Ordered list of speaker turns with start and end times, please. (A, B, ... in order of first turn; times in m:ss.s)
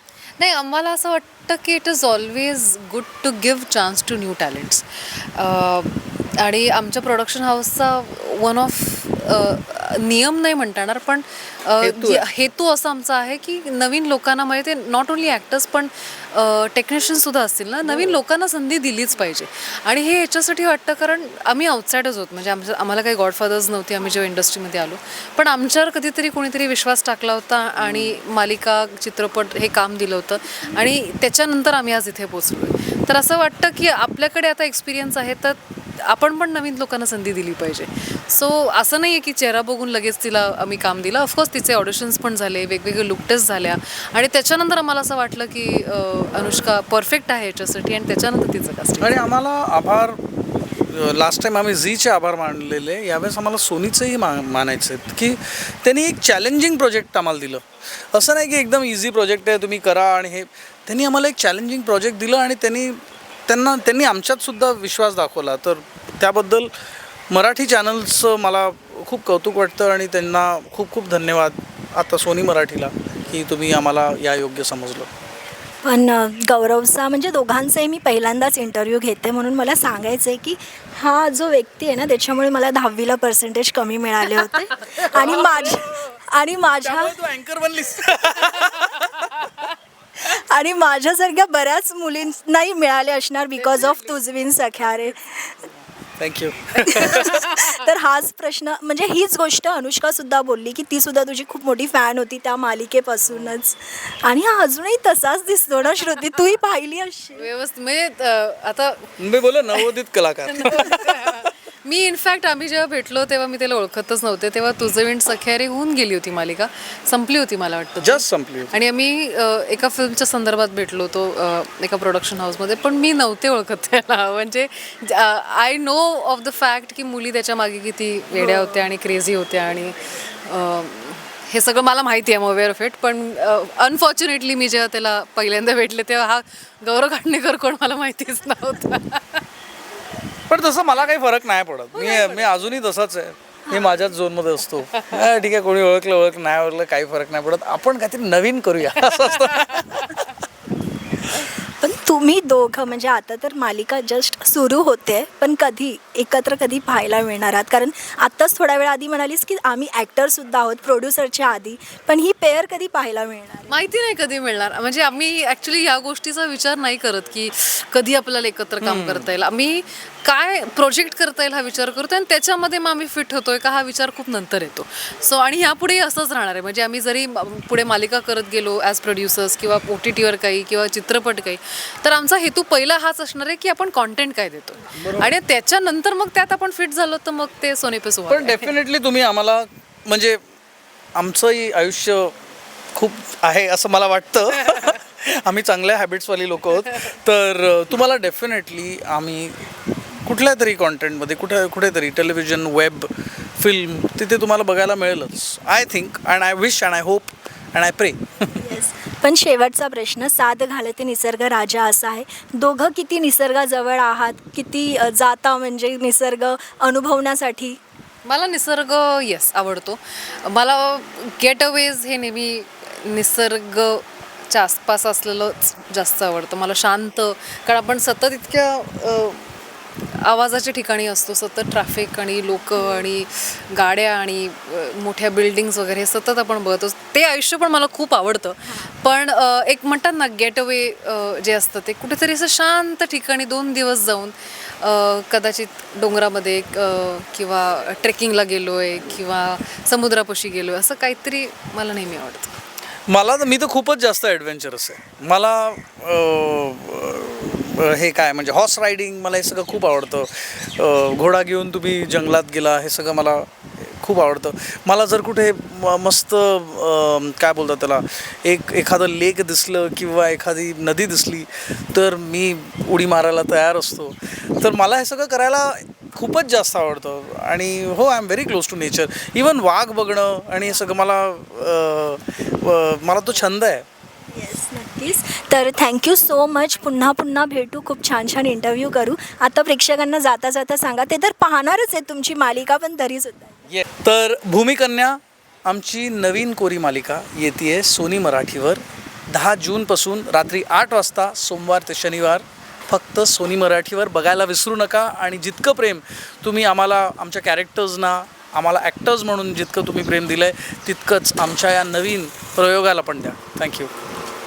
0:00.4-0:49.2 A
0:11.8-0:12.3 B
0:17.8-0:18.2 B
0:27.8-0:28.2 B
0:49.0-0:50.2 B
0:50.9-1:06.7 B
1:07.3-1:15.1 B
1:15.8-1:27.1 C
1:25.0-1:26.1 B
1:26.8-1:29.5 B
1:30.2-1:35.6 C
1:33.7-1:34.1 A
1:36.2-1:37.6 B
1:36.8-1:47.5 C
1:47.4-1:49.1 A
1:49.2-1:51.2 B
1:50.5-2:19.4 A
1:58.0-1:58.8 B
2:08.4-2:08.8 C
2:20.5-2:30.3 B
2:21.9-2:22.6 A
2:23.7-2:24.1 C
2:29.7-2:30.2 A
2:31.3-2:43.7 C
2:43.7-3:08.7 A
2:48.8-2:49.3 B
3:05.0-3:05.3 B
3:08.3-3:10.4 B
3:11.1-3:12.3 B
3:12.9-3:19.7 B
3:20.2-3:28.8 B
3:28.6-3:37.8 C
3:38.2-3:49.5 A
3:50.1-4:12.6 A
4:13.1-4:43.8 B
4:44.3-4:53.5 C
4:53.7-5:13.9 B